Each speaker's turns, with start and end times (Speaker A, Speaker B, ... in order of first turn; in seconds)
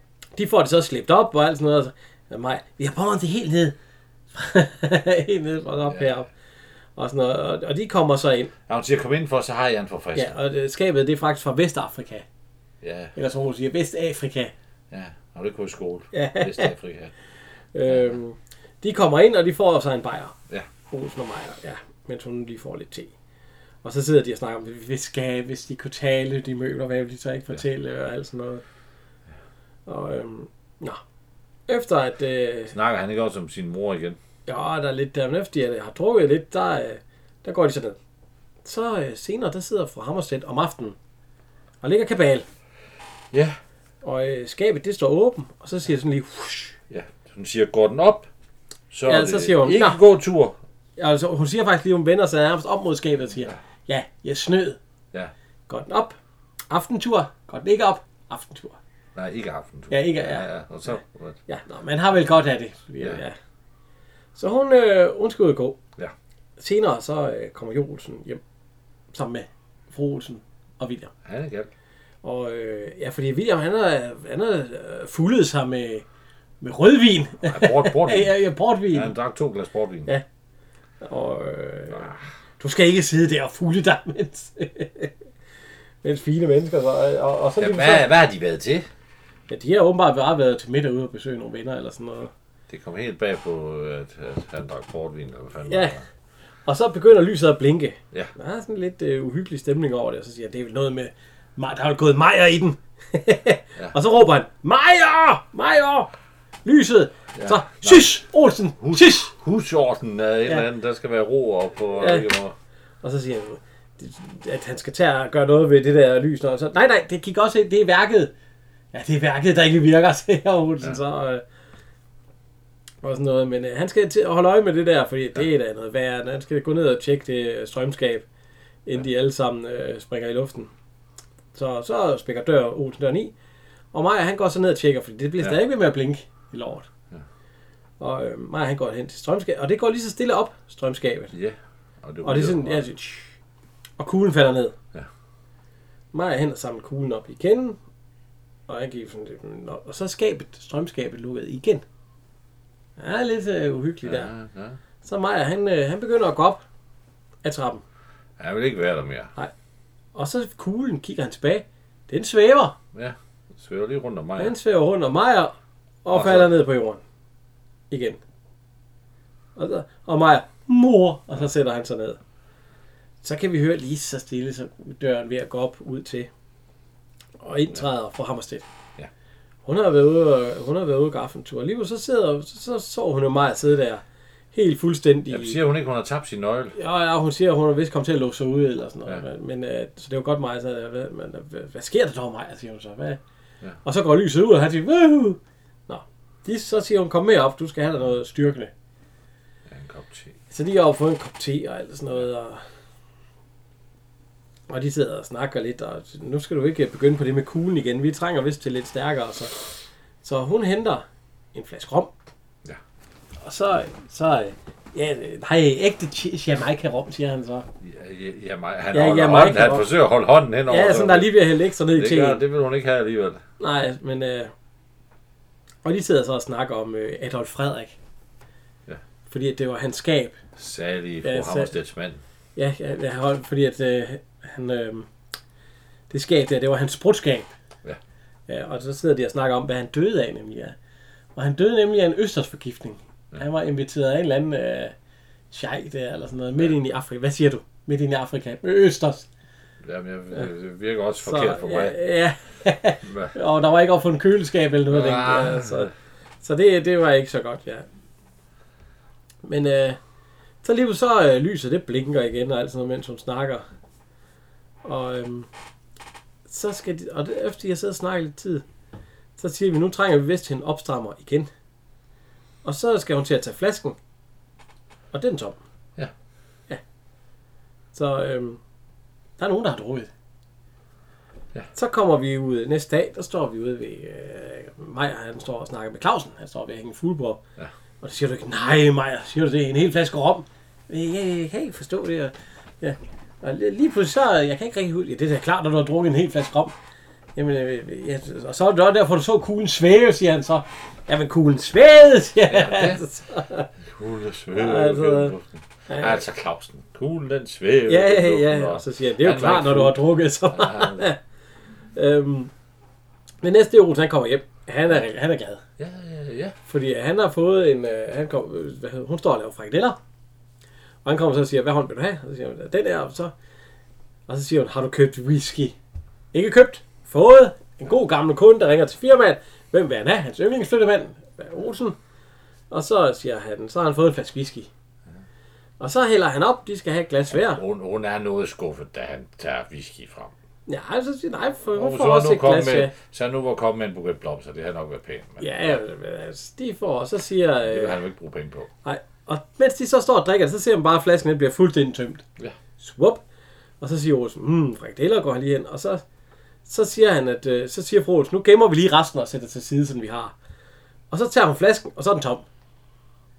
Speaker A: 0.4-3.8, 4.3-6.3, 7.0-8.5, 10.2-12.2, 13.2-14.5, 16.1-16.7, 17.8-20.4, 20.9-23.1, 23.8-28.6, 29.9-31.0, 31.7-32.8, 34.5-38.0, 38.6-41.0, 41.8-42.5, 44.0-46.8, 49.1-50.0, 51.0-54.8, 55.7-56.2, 56.7-58.8, 59.9-63.4, 64.4-65.8, 66.6-68.4, 69.1-71.1, 72.2-76.0, 76.6-79.2, 81.0-85.1, 86.0-88.1, 89.5-92.3, 95.7-95.9, 96.7-106.1, 106.7-109.3, 112.0-112.3, 113.0-118.3, 118.9-121.4, 123.0-128.2, 128.9-130.7, 131.6-133.3, 133.9-136.9, 138.0-141.3, 142.2-143.3, 144.0-144.8, 146.1-147.8, 148.7-151.8, 153.0-154.3, 155.0-156.6, 157.4-157.8, 160.2-162.8, 164.4-167.0, 167.9-168.2, 169.6-172.2, 173.2-176.3, 177.4-178.7, 179.7-184.0, 184.5-185.6, 186.8-193.2, 193.8-198.7, 200.5-202.6, 204.7-209.6, 210.2-212.1, 213.4-217.7, 218.9-219.9, 220.7-222.4, 223.6-224.5, 225.8-227.9, 229.3-230.4, 231.2-231.7, 232.6-235.1, 236.1-237.5, 238.5-240.8, 241.4-244.9, 245.5-249.3, 251.2-255.9, 256.4-257.9, 259.4-260.0, 260.6-263.6, 264.8-265.5, 266.5-268.6, 269.4-271.5, 272.6-274.0, 275.1-275.6, 277.9-278.6, 279.4-280.1, 281.7-287.4, 288.0-296.7, 297.4-303.7, 304.6-305.4, 305.9-306.2, 307.9-311.2, 311.9-312.5, 313.4-315.6, 316.7-320.0, 321.1-323.3, 324.3-325.8, 326.3-332.0, 332.7-334.7, 335.8-337.6, 340.7-342.9, 345.4-348.0, 348.9-352.2, 352.8-353.2, 353.8-356.0, 356.7-360.3, 361.1-362.4
Speaker B: 5.9-6.2, 8.7-10.4, 12.8-13.2, 14.9-17.1, 17.9-18.2, 32.7-34.2, 43.3-43.6, 46.9-48.3, 48.9-50.6, 59.1-61.4, 71.2-71.7, 77.4-78.3, 78.9-80.1, 87.6-88.9, 92.7-96.1, 107.3-108.2, 108.8-112.5, 141.3-142.8, 154.0-154.8, 158.4-159.3, 162.9-164.6, 166.1-166.5, 185.3-186.8, 199.7-200.4, 217.8-223.4, 230.6-232.2, 249.8-252.0, 253.0-253.3, 254.9-255.9, 302.5-303.0, 303.9-311.1, 315.8-316.6, 337.3-340.3, 341.7-345.8, 347.7-348.7